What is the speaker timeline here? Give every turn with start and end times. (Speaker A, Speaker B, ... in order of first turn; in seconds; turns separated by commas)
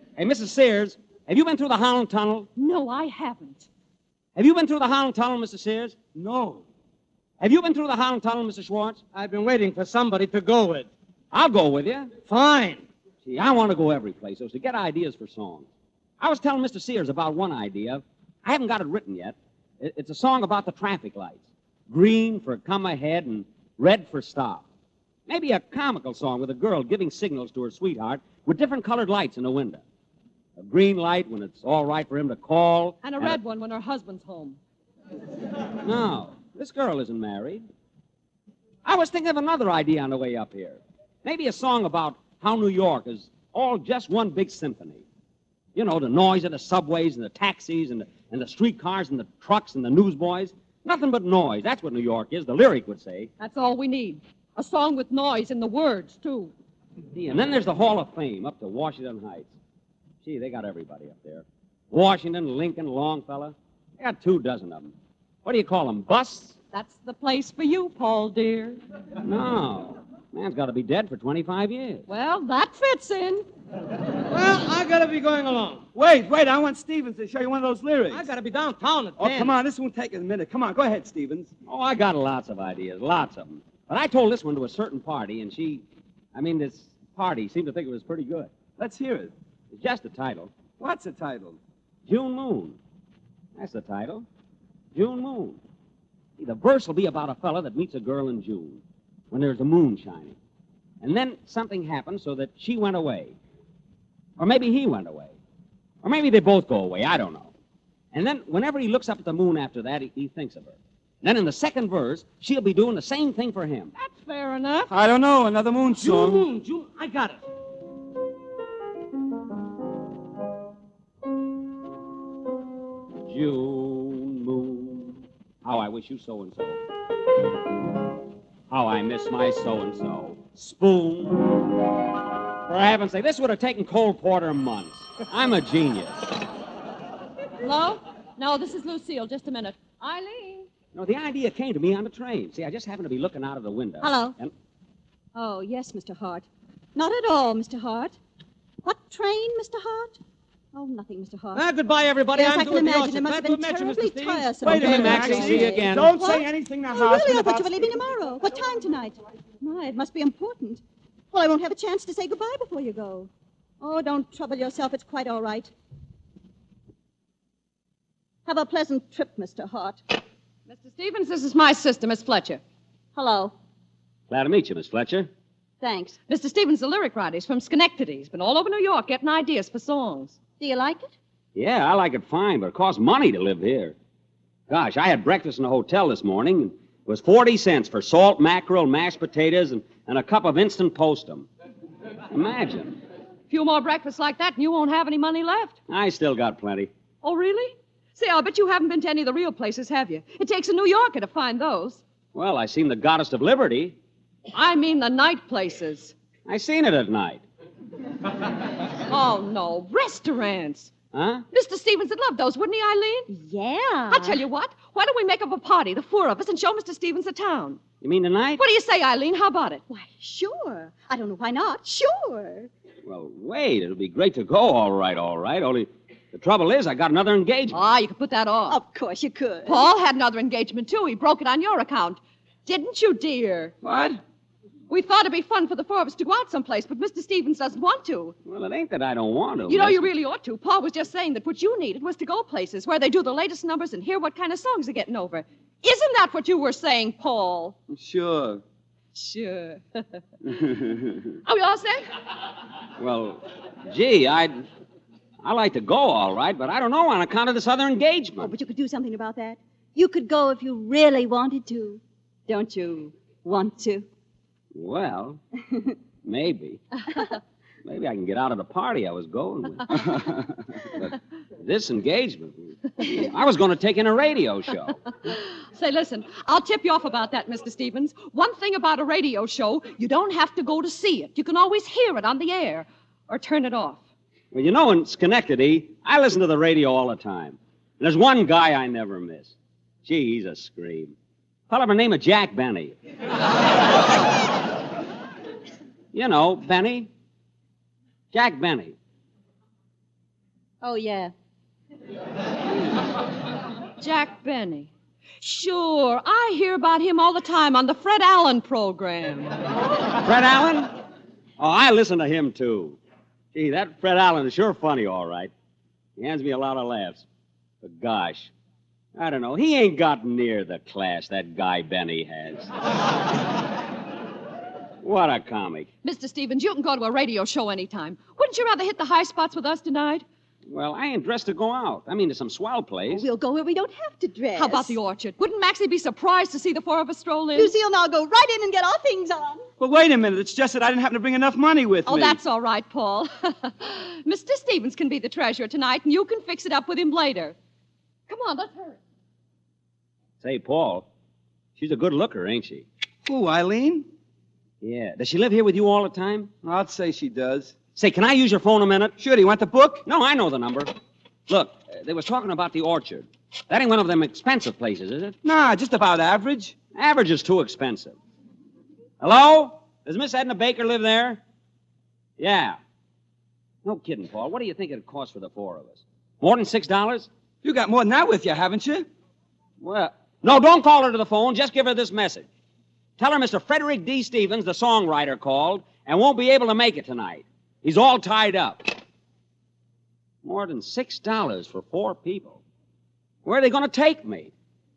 Speaker A: 0.2-2.5, Speaker B: 2.5-3.7, Speaker A: 4.3-6.0, Speaker C: 6.1-6.6, Speaker A: 7.4-9.0, Speaker C: 9.1-10.9, Speaker A: 11.3-12.1, Speaker C: 12.2-12.8, Speaker A: 13.2-15.7, Speaker A: 16.2-24.6, Speaker A: 25.3-29.8, Speaker A: 30.6-33.4, Speaker B: 33.0-34.6, Speaker A: 35.8-37.6, Speaker A: 38.8-45.0, Speaker A: 45.7-53.3, Speaker B: 53.4-56.5, Speaker A: 57.1-59.5, Speaker A: 60.2-64.9, Speaker A: 65.4-66.5, Speaker B: 66.7-68.8, Speaker A: 69.2-72.0, Speaker B: 72.1-73.4, Speaker C: 74.3-75.8, Speaker D: 75.9-78.3, Speaker C: 78.1-79.6, Speaker D: 79.2-81.5, Speaker A: 81.7-88.5, Speaker D: 88.8-89.3, Speaker A: 89.7-90.5, Speaker D: 90.8-91.6, Speaker A: 92.0-92.8, Speaker A: 93.5-94.2, Speaker A: 94.9-95.6, Speaker A: 96.4-100.4, Speaker A: 101.0-103.3, Speaker A: 104.4-105.3, Speaker A: 106.0-107.5, Speaker A: 108.1-113.9, Speaker B: 113.9-114.9, Speaker D: 114.9-116.4, Speaker C: 116.0-117.4, Speaker A: 123.2-126.8, Speaker A: 128.7-131.7, Speaker A: 132.7-136.3, Speaker B: 137.6-140.7, Speaker A: 140.9-144.5, Speaker E: 144.0-144.3, Speaker E: 145.3-148.2, Speaker E: 148.8-150.2, Speaker E: 150.7-151.6, Speaker C: 151.5-155.2, Speaker E: 152.3-163.3, Speaker D: 154.0-158.0, Speaker A: 154.7-156.1, Speaker E: 163.8-165.7, Speaker E: 168.4-170.0, Speaker B: 170.7-172.6, Speaker E: 173.1-173.5, Speaker A: 174.3-175.3, Speaker E: 175.8-176.2, Speaker B: 176.3-180.4, Speaker E: 180.6-181.1, Speaker A: 181.5-183.9, Speaker A: 184.7-191.5, Speaker A: 192.3-193.0, Speaker B: 193.5-195.8, Speaker A: 195.9-196.9, Speaker B: 197.2-202.0, Speaker A: 202.3-203.9, Speaker B: 204.5-206.1, Speaker A: 206.5-207.4, Speaker B: 209.1-210.9, Speaker A: 211.1-211.4, Speaker B: 211.5-213.3, Speaker E: 213.3-214.4, Speaker B: 214.1-217.8, Speaker A: 218.0-218.6, Speaker B: 218.6-219.8, Speaker E: 219.9-222.7, Speaker A: 223.0-227.8, Speaker B: 227.7-228.8, Speaker E: 228.7-229.8, Speaker B: 229.7-233.8, Speaker D: 233.8-234.2, Speaker B: 234.9-238.3, Speaker A: 238.4-240.1, Speaker B: 239.7-247.8, Speaker D: 247.9-248.6, Speaker B: 249.1-250.2, Speaker D: 250.6-251.1, Speaker B: 251.4-252.0, Speaker A: 253.0-254.7, Speaker A: 255.4-258.5, Speaker E: 258.4-264.1, Speaker A: 264.7-265.4, Speaker A: 266.2-266.8, Speaker A: 267.8-270.2, Speaker A: 271.6-275.0, Speaker B: 275.7-284.0, Speaker A: 284.5-291.1, Speaker A: 291.7-292.9, Speaker A: 296.1-297.1, Speaker A: 298.3-298.9, Speaker E: 300.8-301.3, Speaker B: 304.0-309.5, Speaker A: 310.2-310.9, Speaker A: 311.6-313.0, Speaker A: 313.5-315.5, Speaker A: 316.2-317.2, Speaker A: 317.8-318.5, Speaker A: 319.1-322.7, Speaker A: 325.0-325.9, Speaker B: 326.0-330.2, Speaker A: 330.7-333.3, Speaker E: 333.1-334.9, Speaker B: 334.5-337.7, Speaker E: 337.6-339.6, Speaker D: 339.8-342.4, Speaker B: 342.0-347.6, Speaker B: 348.3-349.0, Speaker A: 350.4-351.1, Speaker A: 351.8-352.9, Speaker D: 353.2-354.1, Speaker A: 354.8-356.5, Speaker D: 356.6-357.7, Speaker A: 357.9-359.1, Speaker D: 359.2-360.0, Speaker A: 360.1-360.9, Speaker A: 361.5-365.4, Speaker D: 365.4-366.8, Speaker A: 366.9-368.2, Speaker A: 369.2-371.4, Speaker A: 372.4-372.8, Speaker A: 373.8-377.3, Speaker D: 377.6-379.1, Speaker A: 379.8-382.5, Speaker A: 383.2-388.9, Speaker A: 390.4-392.6, Speaker A: 393.4-394.5